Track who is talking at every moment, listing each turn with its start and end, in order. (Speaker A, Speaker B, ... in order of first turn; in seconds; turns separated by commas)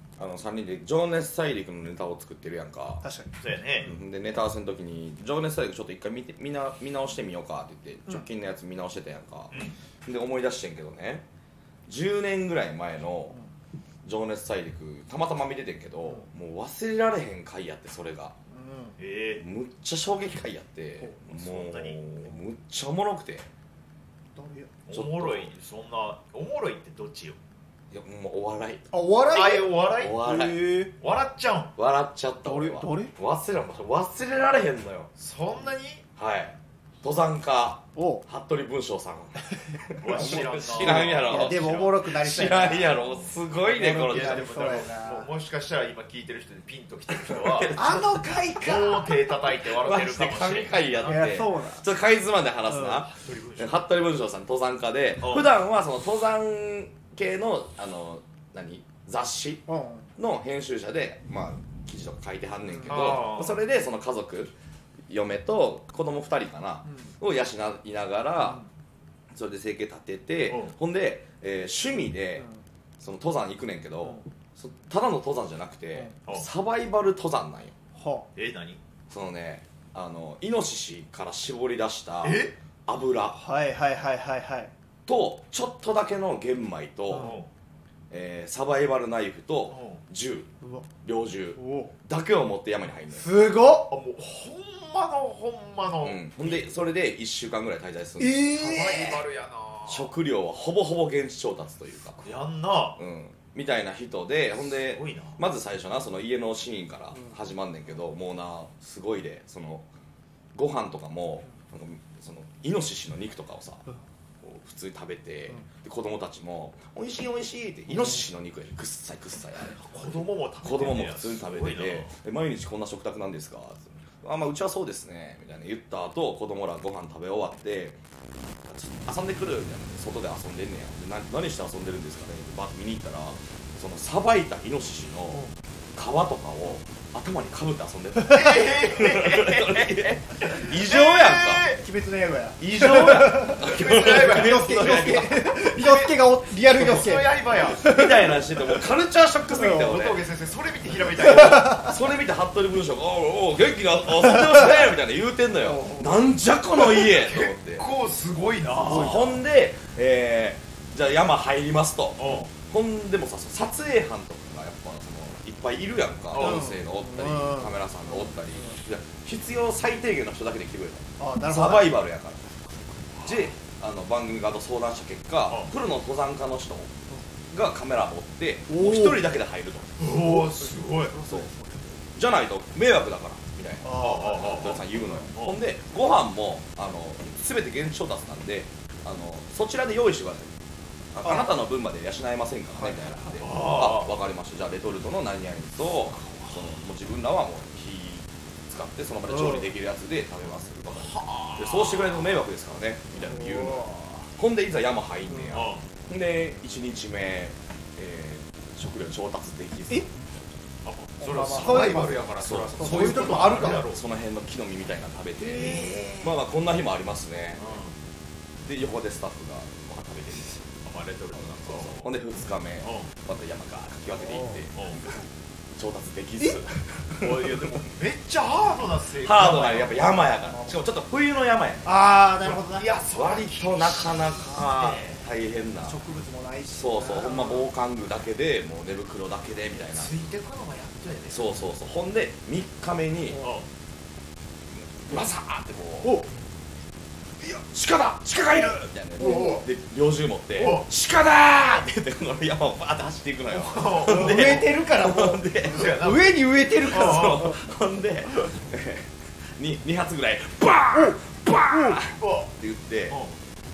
Speaker A: 0.2-3.0, Speaker B: 3.0-3.3, Speaker C: 3.4-3.9, Speaker A: 3.8-11.2, Speaker A: 11.9-13.4, Speaker A: 14.0-18.4, Speaker B: 18.5-18.9, Speaker C: 19.0-19.4, Speaker A: 19.4-23.5, Speaker C: 21.3-22.0, Speaker B: 24.4-24.7, Speaker C: 24.9-27.4, Speaker A: 24.9-25.5, Speaker A: 27.9-28.9, Speaker B: 28.9-30.9, Speaker C: 29.3-30.3, Speaker A: 30.0-30.9, Speaker C: 30.9-31.7, Speaker A: 31.8-35.1, Speaker B: 32.4-33.1, Speaker C: 35.2-36.0, Speaker A: 36.2-44.8, Speaker B: 38.0-38.3, Speaker C: 40.0-47.8, Speaker B: 40.1-43.0, Speaker B: 43.6-45.3, Speaker A: 47.1-48.3, Speaker B: 47.8-49.2, Speaker C: 48.6-51.2, Speaker A: 49.6-59.7, Speaker B: 51.0-51.9, Speaker B: 52.7-53.1, Speaker C: 53.1-53.8, Speaker C: 55.2-55.5, Speaker B: 59.7-60.1, Speaker A: 60.2-64.5, Speaker C: 62.9-63.6, Speaker A: 65.1-68.6, Speaker A: 69.3-72.5, Speaker C: 70.5-70.8, Speaker A: 73.0-77.8, Speaker B: 78.0-78.3, Speaker C: 78.3-78.8, Speaker A: 79.1-83.4, Speaker C: 82.2-82.5, Speaker B: 83.3-84.7, Speaker A: 85.1-87.3, Speaker B: 87.1-87.4, Speaker C: 87.2-87.5, Speaker A: 88.1-90.5, Speaker C: 89.7-90.0, Speaker A: 91.0-93.3, Speaker B: 91.6-91.9, Speaker B: 93.2-93.9, Speaker C: 93.9-96.3, Speaker A: 96.0-98.7, Speaker B: 98.2-99.2, Speaker C: 98.6-100.1, Speaker A: 99.9-102.3, Speaker C: 102.2-103.0, Speaker A: 103.0-109.9, Speaker C: 104.6-105.4, Speaker A: 110.5-113.8, Speaker A: 114.4-120.1, Speaker C: 119.8-122.1, Speaker A: 120.6-128.0, Speaker A: 128.7-135.4, Speaker A: 135.9-141.8, Speaker C: 138.3-141.8, Speaker B: 141.8-148.4, Speaker A: 142.6-145.5, Speaker C: 143.5-147.9, Speaker A: 146.8-150.2, Speaker B: 149.5-149.9, Speaker C: 149.6-151.9, Speaker A: 151.2-157.9, Speaker B: 155.6-156.1, Speaker C: 156.8-159.2, Speaker B: 158.8-159.4, Speaker A: 158.8-172.5, Speaker C: 162.2-162.5, Speaker C: 166.3-166.7, Speaker B: 166.4-168.8, Speaker B: 171.2-172.0, Speaker C: 173.1-173.6, Speaker A: 173.2-176.9, Speaker A: 177.5-180.2, Speaker B: 178.7-179.2, Speaker C: 180.0-181.2, Speaker B: 180.2-182.0, Speaker A: 182.2-190.6, Speaker B: 183.8-185.3, Speaker C: 183.9-185.6, Speaker A: 191.1-210.7, Speaker B: 191.2-191.5, Speaker B: 192.8-193.4, Speaker C: 193.4-194.1, Speaker B: 199.3-199.7, Speaker C: 200.8-202.3, Speaker B: 203.2-204.3, Speaker B: 205.3-205.6, Speaker C: 205.5-205.9, Speaker C: 210.8-214.0, Speaker B: 211.2-213.9, Speaker A: 212.4-217.6, Speaker B: 215.5-216.2, Speaker C: 215.5-216.2, Speaker C: 217.6-218.0, Speaker A: 218.6-220.6, Speaker C: 220.8-222.1, Speaker A: 221.5-224.8, Speaker C: 222.8-223.1, Speaker B: 224.3-224.6, Speaker C: 224.8-225.1, Speaker A: 225.7-227.9, Speaker C: 227.2-230.2, Speaker A: 229.2-231.9, Speaker B: 230.4-230.8, Speaker B: 231.8-232.9, Speaker C: 232.4-235.2, Speaker A: 233.1-236.0, Speaker B: 235.8-237.7, Speaker A: 236.7-240.1, Speaker C: 239.9-241.5, Speaker A: 241.3-243.4, Speaker B: 243.3-243.6, Speaker A: 244.9-246.2, Speaker B: 246.0-246.3, Speaker A: 247.4-256.0, Speaker B: 249.2-249.6, Speaker C: 249.2-249.6, Speaker C: 250.6-250.9, Speaker C: 253.6-254.7, Speaker B: 254.0-257.6, Speaker C: 255.6-257.5, Speaker A: 256.8-263.2, Speaker B: 260.9-262.0, Speaker C: 262.2-262.5, Speaker C: 263.1-263.4